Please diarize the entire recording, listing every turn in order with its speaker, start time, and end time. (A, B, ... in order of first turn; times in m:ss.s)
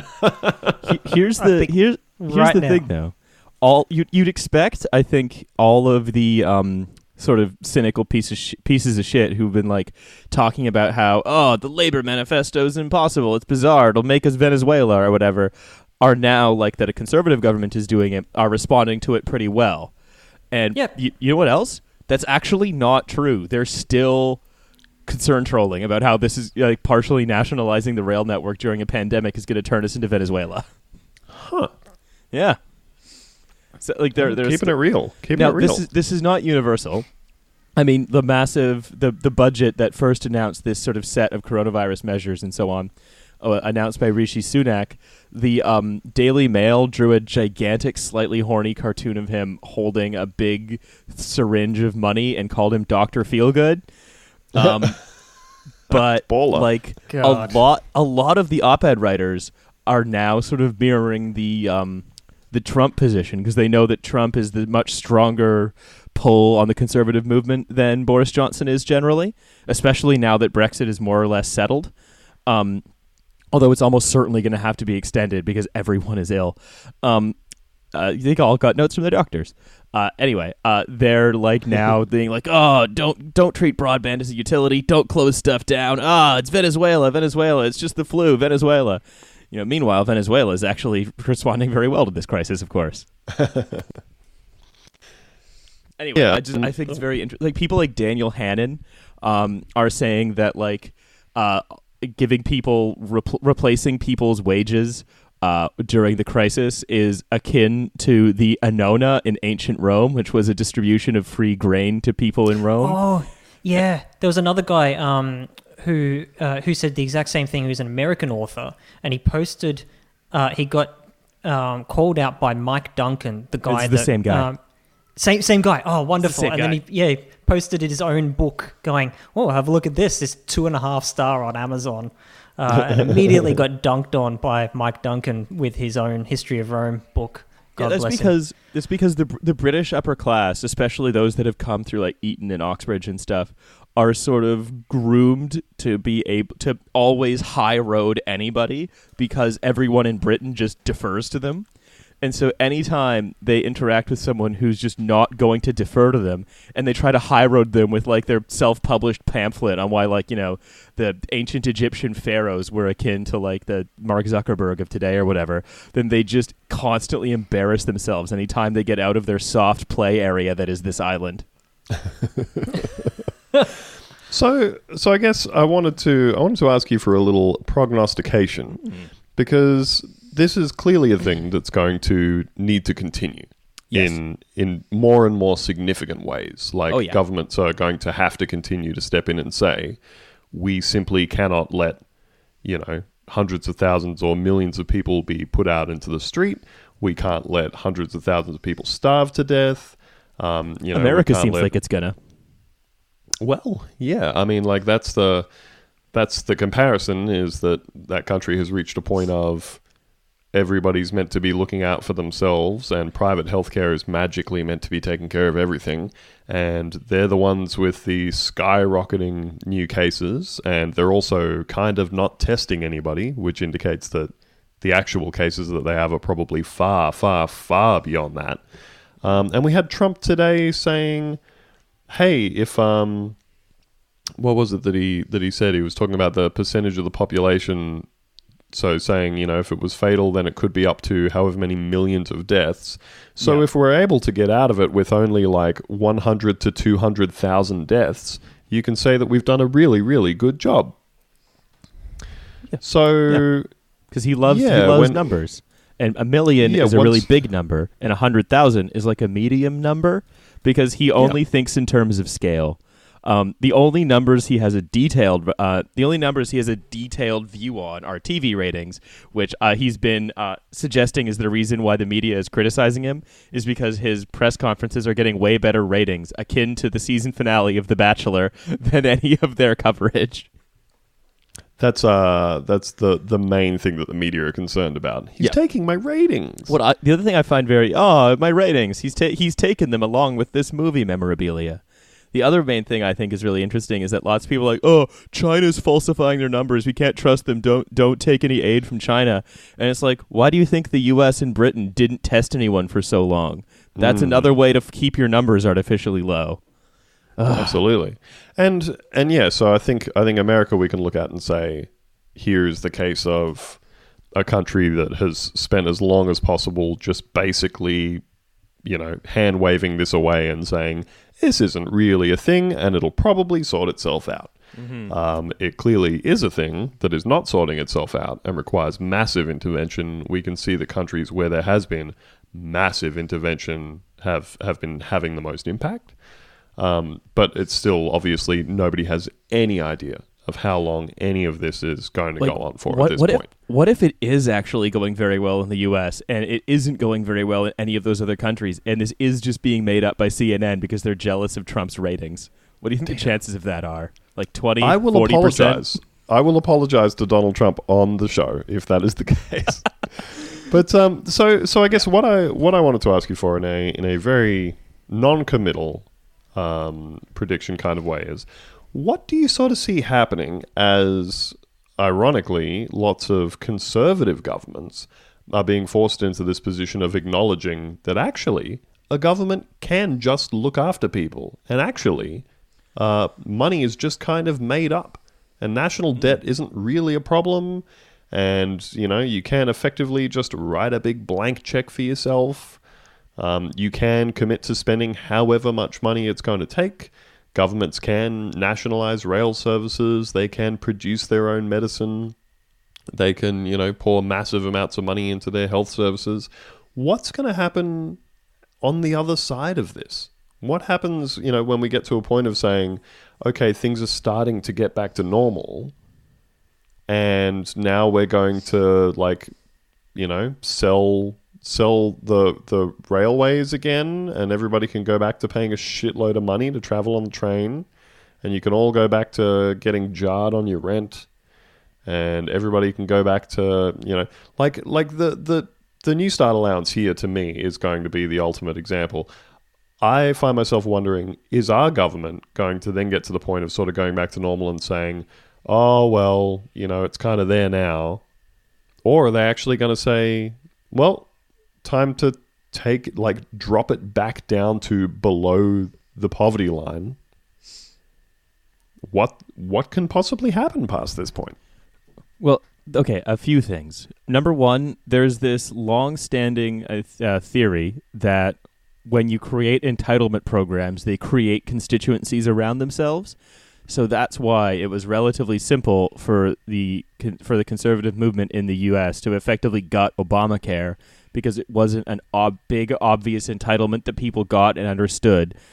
0:00.2-0:00.8 A
0:00.8-0:19.9 B
0:01.4-0:02.9 C
0:20.5-0:24.4 B
0:25.0-0:30.6 B
0:31.3-0:31.7 A
0:32.3-0:32.6 B
0:33.8-0:34.7 B
0:34.2-0:35.8 A
0:35.3-0:37.0 B
0:37.8-0:42.9 B
0:43.4-0:53.8 B
0:54.5-0:55.1 B
0:55.9-1:11.9 B
0:55.9-0:56.7 A
0:57.1-0:57.6 C
1:12.5-1:12.8 B
1:13.5-1:17.4 B
1:17.9-1:33.0 B
1:33.3-1:33.8 A
1:36.0-1:53.0 B
1:36.1-1:36.9 A
1:52.8-2:04.6 C
2:03.6-2:04.5 B
2:05.2-2:18.3 C
2:06.2-2:06.8 B
2:17.8-2:31.6 B
2:32.2-2:51.4 B
2:54.3-2:58.8 A
2:59.3-3:12.0 A
3:03.9-3:04.2 B
3:06.9-3:07.2 B
3:12.6-3:21.7 A
3:20.9-3:22.1 B
3:23.4-3:25.5 A
3:26.1-3:29.8 A
3:30.5-3:48.6 A
3:49.2-3:51.4 A
3:52.1-3:53.4 A
3:54.4-3:58.1 A
3:58.7-4:10.9 A
4:12.7-4:13.4 B
4:12.8-4:13.7 A
4:14.1-4:40.5 B
4:14.4-4:15.2 A
4:16.6-4:17.3 A
4:41.8-4:46.8 A
4:46.7-4:51.8 B
4:52.3-5:06.6 B
5:04.0-5:04.5 A
5:07.4-5:07.8 B
5:07.5-5:13.8 A
5:14.4-5:18.2 A
5:18.8-5:24.6 A
5:24.8-5:25.1 B
5:25.1-5:36.1 A
5:36.8-5:43.5 A
5:42.4-5:55.8 B
5:53.1-5:53.3 A
5:54.8-6:22.4 A
6:23.0-6:32.8 A
6:33.4-6:42.4 A
6:43.1-6:48.2 A
6:48.8-6:55.9 A
6:57.1-6:59.5 A
7:00.1-7:07.9 A
7:08.4-7:11.3 A
7:12.0-7:19.3 A
7:20.0-7:28.2 A
7:29.0-7:31.3 A
7:31.8-7:37.2 A
7:39.0-7:41.6 A
7:42.4-7:53.3 B
7:53.9-8:05.5 B